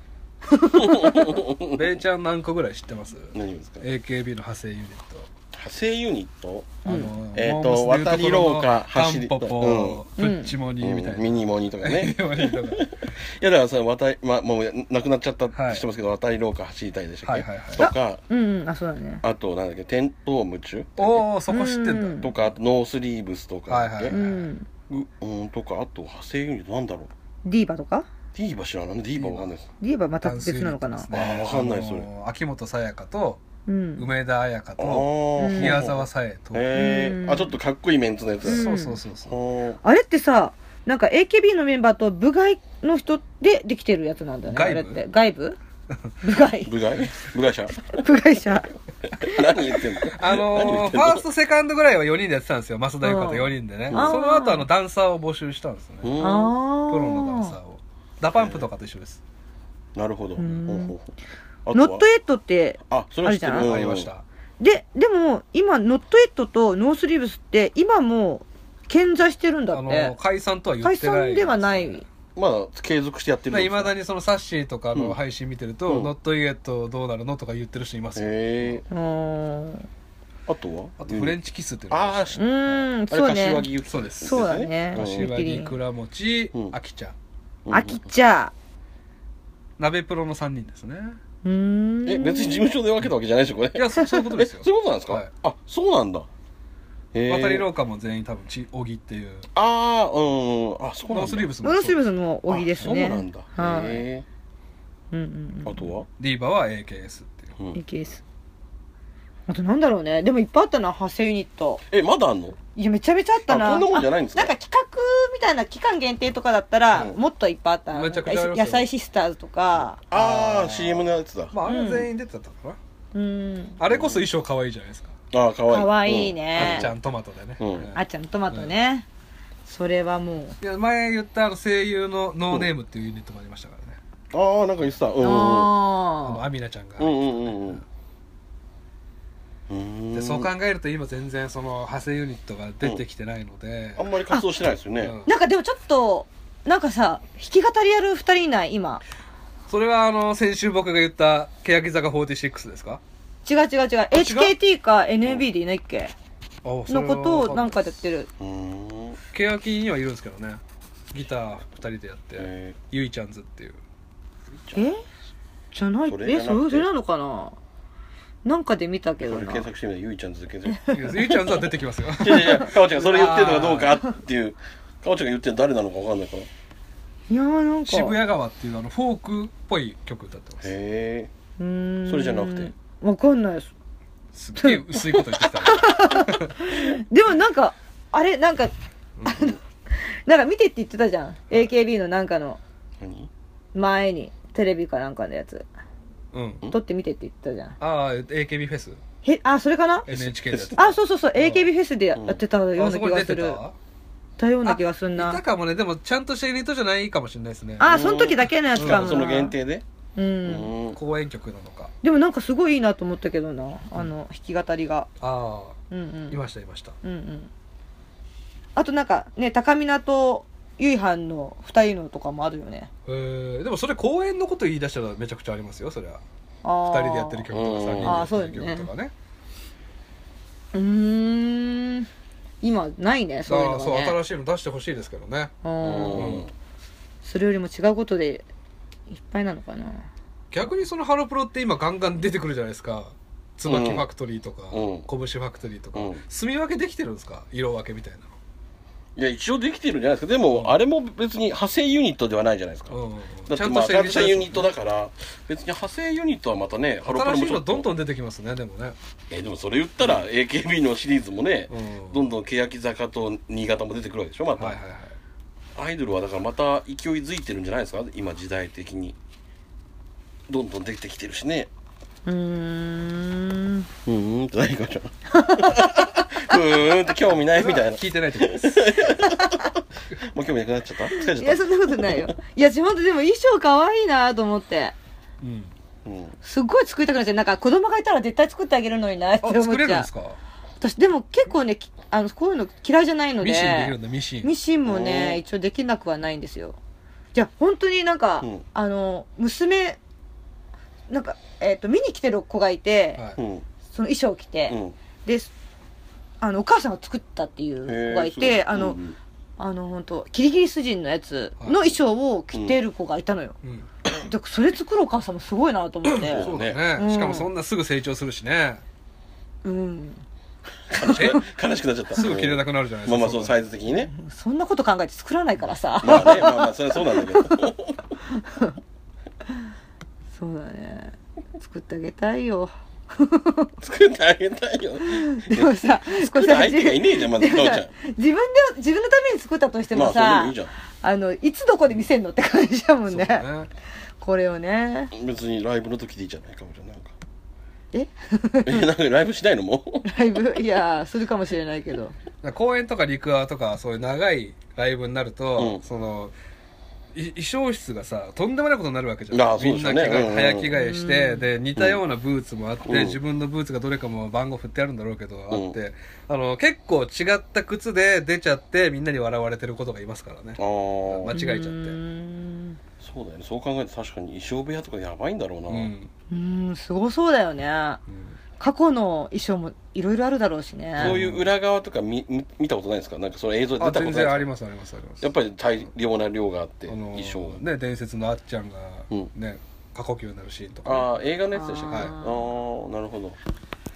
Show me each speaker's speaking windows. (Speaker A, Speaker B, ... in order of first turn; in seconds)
Speaker A: 0.5-1.4, 6.8-7.1, 10.2-10.5, 17.8-19.2, 21.5-22.3, 24.1-24.7, 27.4-28.1, 29.8-31.1, 33.7-34.0, 35.4-35.8, 36.7-37.5, 38.5-39.0, 39.8-45.6, 46.2-46.7, 47.9-48.7, 53.0-54.7, 56.2-57.5, 60.4-61.0, 61.7-63.7, 64.6-70.1, 70.8-72.0, 78.9-79.9, 82.4-83.7, 84.2-85.8, 87.7-88.5, 91.4-92.7, 101.6-104.1, 105.1-105.9, 107.7-108.2, 109.5-111.8, 112.8-120.0, 121.7-122.1, 123.1-123.8, 125.7-126.9, 128.0-129.1, 129.7-130.6, 135.2-136.4, 145.3-149.0, 153.5-156.1, 156.9-158.3, 164.8-165.0, 165.7-167.6, 168.4-169.7, 177.3-178.2, 181.6-183.7, 184.6-188.7, 189.3-192.6, 193.7-195.7, 196.7-197.8, 199.2-200.1, 200.8-203.6, 204.4-205.4, 207.8-209.5, 210.2-210.7, 212.0-215.1, 215.9-216.4, 217.0-217.5, 218.8-222.9, 226.6-227.5, 228.0-228.9, 230.7-232.1, 232.6-234.2, 235.6-236.3, 237.2-238.5, 239.1-240.1, 272.3-273.9, 275.3-275.9, 279.2-279.7, 281.1-284.9, 286.4-290.1, 290.8-296.8, 297.3-300.0, 301.1-303.2, 303.9-305.5, 306.4-309.0, 309.6-313.6, 314.2-317.5, 319.6-320.2, 323.9-327.7, 328.3-328.8, 330.4-333.7, 335.0-343.5, 344.2-345.1, 347.9-348.9, 350.1-352.1, 360.7-361.5, 371.3-372.8, 376.3-378.0, 378.6-381.2, 391.5-392.5
Speaker B: 0.8-1.9, 3.3-3.9, 5.5-6.8, 7.3-10.0, 10.8-18.2, 19.2-21.2, 22.2-24.1, 24.9-27.1, 28.3-29.7, 31.1-32.1, 34.8-38.7, 39.2-39.8, 46.7-47.8, 49.2-51.2, 53.9-54.1, 56.0-56.5, 58.4-58.7, 60.0-61.0, 61.7-62.0, 62.9-64.1, 72.4-73.9, 75.9-76.1, 78.2-78.9, 80.5-81.4, 81.9-82.4, 83.1-85.3, 87.7-88.0, 92.1-96.3, 97.1-97.7, 99.5-101.5, 102.5-104.3, 105.7-106.1, 111.9-112.6, 113.5-114.5, 120.1-121.5, 123.9-124.2, 125.3-126.9, 127.6-127.9, 134.3-135.8, 137.0-137.8, 139.7-140.5, 144.0-145.2, 158.4-159.2, 162.4-162.8, 164.5-164.9, 166.1-166.9, 169.2-170.8, 172.2-176.5, 180.6-181.3, 182.1-182.7, 193.0-193.3, 200.1-200.8, 202.2-202.4, 207.8-209.8, 210.4-211.0, 227.5-228.3, 235.8-236.5, 243.7-244.1, 244.7-245.1, 245.9-246.2, 249.2-253.0, 253.5-257.9, 259.3-264.8, 265.8-269.2, 270.5-271.7, 274.1-282.3, 286.1-286.3, 294.9-295.4, 303.4-303.7, 304.7-305.0, 307.9-309.2, 316.3-316.8, 320.9-324.1, 326.0-328.0, 333.8-337.9, 339.9-340.7, 345.1-347.1, 348.6-350.1, 355.6-355.8, 359.3-360.7, 362.9-363.2, 365.5-365.8, 370.6-371.3, 373.0-375.9, 381.0-384.5, 385.2-387.6, 390.9-393.4
Speaker C: 1.7-5.3, 6.8-13.1, 15.5-15.8, 17.2-17.9, 21.0-22.3, 23.7-24.5, 29.2-29.5, 30.2-33.4, 34.0-36.7, 38.4-39.4, 44.5-45.0, 50.1-59.2, 63.6-64.2, 69.7-72.0, 73.5-78.8, 81.0-82.5, 83.9-87.2, 89.8-91.2, 93.8-95.3, 97.3-99.5, 101.1-102.0, 106.2-107.5, 117.9-118.9, 120.1-122.8, 123.8-125.1, 126.5-128.0, 130.6-134.0, 136.2-137.8, 140.1-144.1, 145.0-145.3, 149.7-153.0, 154.1-154.6, 156.6-157.9, 159.3-160.6, 161.1-163.8, 170.9-174.0, 177.9-180.7, 184.3-186.6, 189.2-189.5, 196.3-196.7, 197.8-199.0, 200.1-201.7, 202.8-203.8, 204.7-208.0, 208.8-209.2, 210.9-211.9, 215.2-215.8, 216.3-216.9, 223.1-226.2, 226.9-229.1, 233.5-235.5, 236.1-236.5, 240.5-248.3, 252.9-254.7, 257.0-259.0, 261.7-262.2, 264.6-265.2, 277.4-279.0, 285.4-285.7, 289.4-290.4, 293.4-294.5, 316.1-318.8, 321.0-321.4, 322.1-323.6, 343.1-343.7, 352.4-356.3, 357.1-372.0, 375.7-376.1, 378.1-378.4, 381.0-381.5, 383.8-385.3, 386.9-391.1